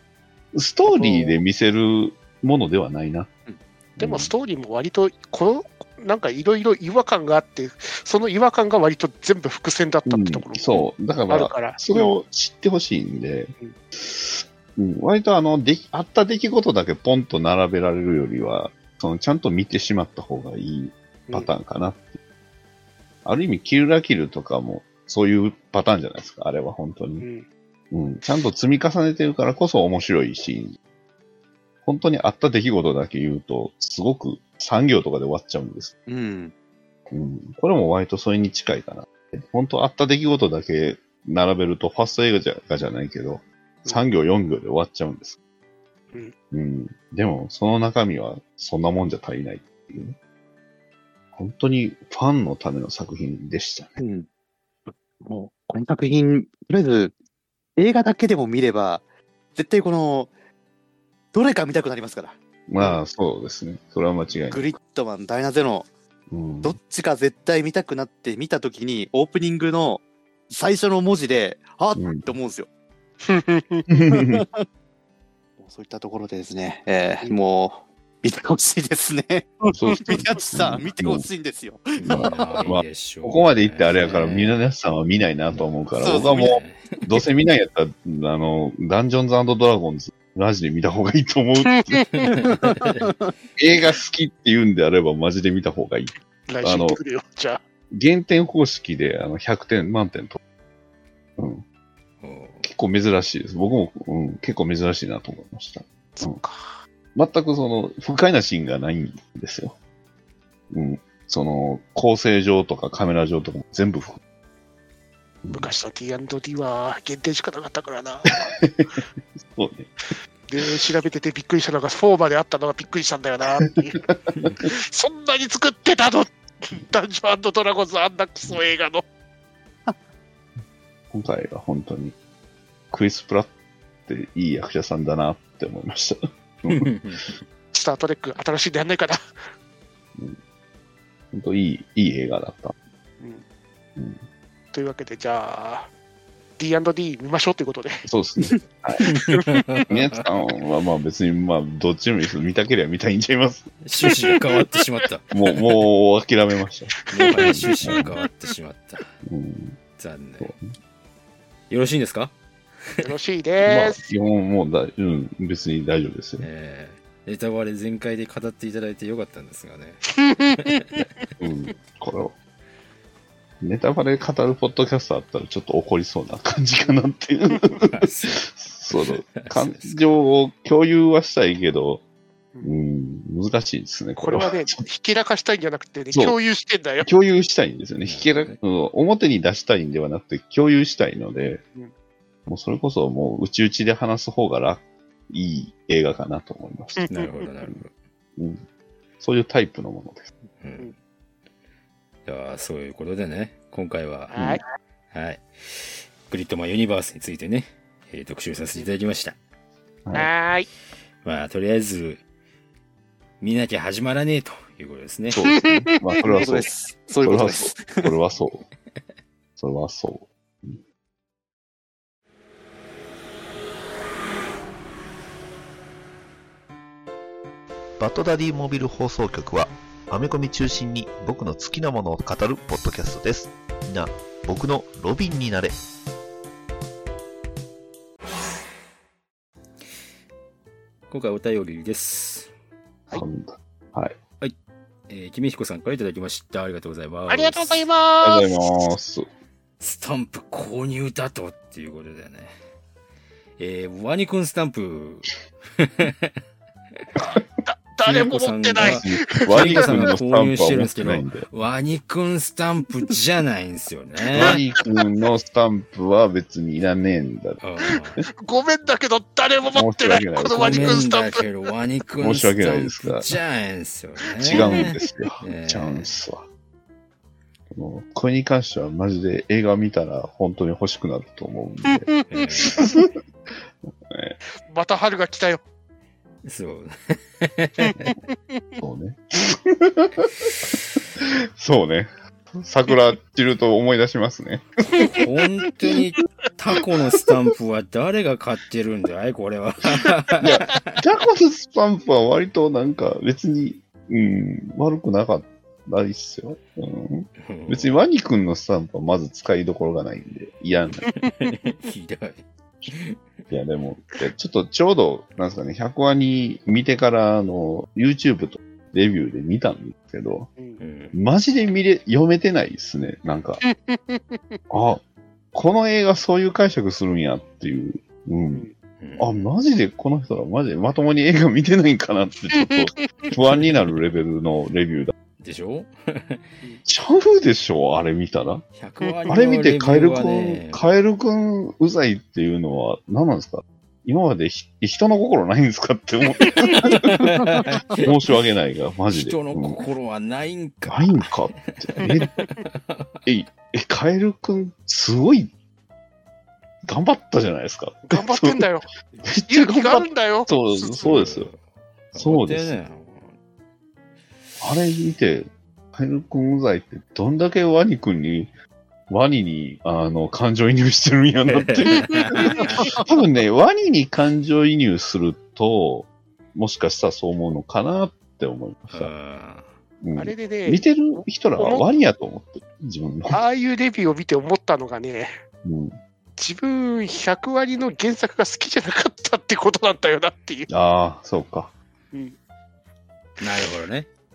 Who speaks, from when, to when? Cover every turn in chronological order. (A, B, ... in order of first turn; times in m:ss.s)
0:00.5-0:03.3 A
0:04.0-0:04.3 A
0:04.0-0:12.1 B
0:10.0-0:22.2 A
0:23.2-0:27.2 A
0:27.2-0:27.4 B
0:27.9-0:30.8 A
0:31.8-0:35.9 A
0:36.1-0:36.5 C
0:37.1-0:45.4 A
0:46.5-0:50.2 A
0:51.3-0:54.0 A
0:54.0-0:54.3 C
0:54.9-0:57.1 C
0:57.8-0:59.0 C
0:59.5-1:00.3 C
1:01.3-1:03.0 C
1:02.7-1:04.6 A
1:04.5-1:05.9 C
1:06.3-1:06.8 A
1:06.6-1:12.7 C
1:12.0-1:12.3 A
1:13.2-1:13.8 B
1:13.9-1:14.4 A
1:14.0-1:14.6 C
1:15.6-1:22.6 C
1:19.7-1:21.3 A
1:22.0-1:32.0 A
1:22.1-1:24.6 D
1:26.0-1:26.6 C
1:26.1-1:27.0 D
1:31.7-1:32.3 B
1:32.1-1:33.1 D
1:33.6-1:37.0 A
1:36.5-1:37.6 B
1:37.9-1:40.4 A
1:41.4-1:41.6 A
1:42.2-1:42.6 D
1:42.6-1:46.4 A
1:46.2-1:46.7 B
1:47.1-1:49.8 A
1:50.7-1:54.2 A
1:55.4-1:55.7 A
1:55.5-1:58.4 B
1:58.3-1:59.9 A
2:00.5-2:04.0 B
2:04.6-2:09.0 B
2:11.1-2:12.2 A
2:12.9-2:13.5 A
2:14.0-2:16.9 A
2:16.7-2:17.4 D
2:17.7-2:19.2 B
2:21.3-2:22.7 A
2:24.0-2:24.2 A
2:24.7-2:25.9 B
2:26.6-2:28.0 B
2:28.0-2:29.0 A
2:29.0-2:30.2 D
2:29.9-2:33.7 A
2:33.8-2:35.3 D
2:35.3-2:38.1 A
2:37.1-2:39.1 D
2:37.2-2:37.7 B
2:39.2-2:39.8 A
2:40.0-2:40.5 D
2:40.4-2:40.7 A
2:41.7-2:42.3 D
2:43.0-2:44.0 B
2:43.6-2:46.5 A
2:46.4-2:50.1 D
2:50.2-2:50.7 B
2:50.6-2:51.0 D
2:51.4-2:52.3 A
2:53.6-3:02.0 A
2:57.9-2:58.4 D
2:59.0-3:00.0 D
3:02.6-3:04.8 A
3:04.2-3:07.1 B
3:06.1-3:06.4 A
3:07.0-3:11.6 A
3:08.0-3:08.6 D
3:12.5-3:17.1 A
3:17.0-3:17.3 B
3:17.1-3:17.9 D
3:18.4-3:18.6 A
3:19.2-3:20.3 A
3:20.6-3:20.9 D
3:22.2-3:24.4 D
3:24.3-3:24.6 B
3:25.1-3:29.4 D
3:30.1-3:30.7 B
3:31.2-3:32.2 D
3:33.4-3:35.4 D
3:35.3-3:36.7 A
3:35.5-3:36.2 B
3:36.2-3:38.1 C
3:37.2-3:38.6 A
3:39.6-3:40.8 A
3:48.0-3:55.8 E
4:01.1-4:02.5 D
4:03.1-4:04.2 A
4:05.1-4:07.8 D
4:07.3-4:08.9 B
4:08.2-4:09.3 A
4:09.8-4:12.5 D
4:13.6-4:16.4 D
4:17.2-4:20.0 B
4:18.0-4:24.6 D
4:18.8-4:21.5 A
4:24.3-4:24.8 B
4:24.3-4:27.6 A
4:27.6-4:28.2 D
4:28.4-4:31.4 B
4:29.7-4:31.0 A
4:30.5-4:36.1 D
4:32.2-4:33.4 A
4:34.4-4:36.4 A
4:34.5-4:34.8 B
4:37.7-4:42.1 A
4:41.9-4:42.6 B
4:42.3-4:42.8 D
4:42.6-4:43.1 A
4:44.1-4:44.4 A
4:44.7-4:45.6 B
4:46.4-4:48.1 D
4:48.8-4:50.3 A
4:51.6-4:55.2 A
4:54.9-4:55.2 B
4:55.1-5:00.9 D
5:00.4-5:11.1 A
5:07.4-5:07.9 D
5:11.2-5:13.2 D
5:13.5-5:20.5 A
5:20.8-5:21.1 D
5:21.1-5:23.6 A
5:23.6-5:24.6 B
5:24.7-5:25.0 A
5:25.5-5:28.6 A
5:29.0-5:29.4 D
5:29.2-5:35.1 A
5:32.5-5:33.3 B
5:35.4-5:36.5 D
5:36.8-5:38.6 A
5:38.8-5:40.8 D
5:39.3-5:47.4 A
5:46.6-5:48.1 D
5:48.0-5:49.8 A
5:49.1-5:53.1 D
5:50.8-5:52.4 A
5:53.2-5:55.5 A
5:56.8-5:58.6 A
5:58.1-5:58.9 B
5:59.2-6:01.5 A
5:59.5-6:01.1 B
6:01.0-6:01.6 D
6:02.1-6:03.3 D
6:02.1-6:02.8 A
6:04.6-6:08.5 A
6:09.1-6:19.1 A
6:11.5-6:13.0 D
6:12.3-6:12.9 B
6:18.9-6:19.7 D
6:20.0-6:23.4 A
6:20.2-6:21.8 B
6:23.3-6:25.3 B
6:25.6-6:26.0 A
6:26.4-6:30.7 B
6:30.7-6:31.7 A
6:33.4-6:34.1 D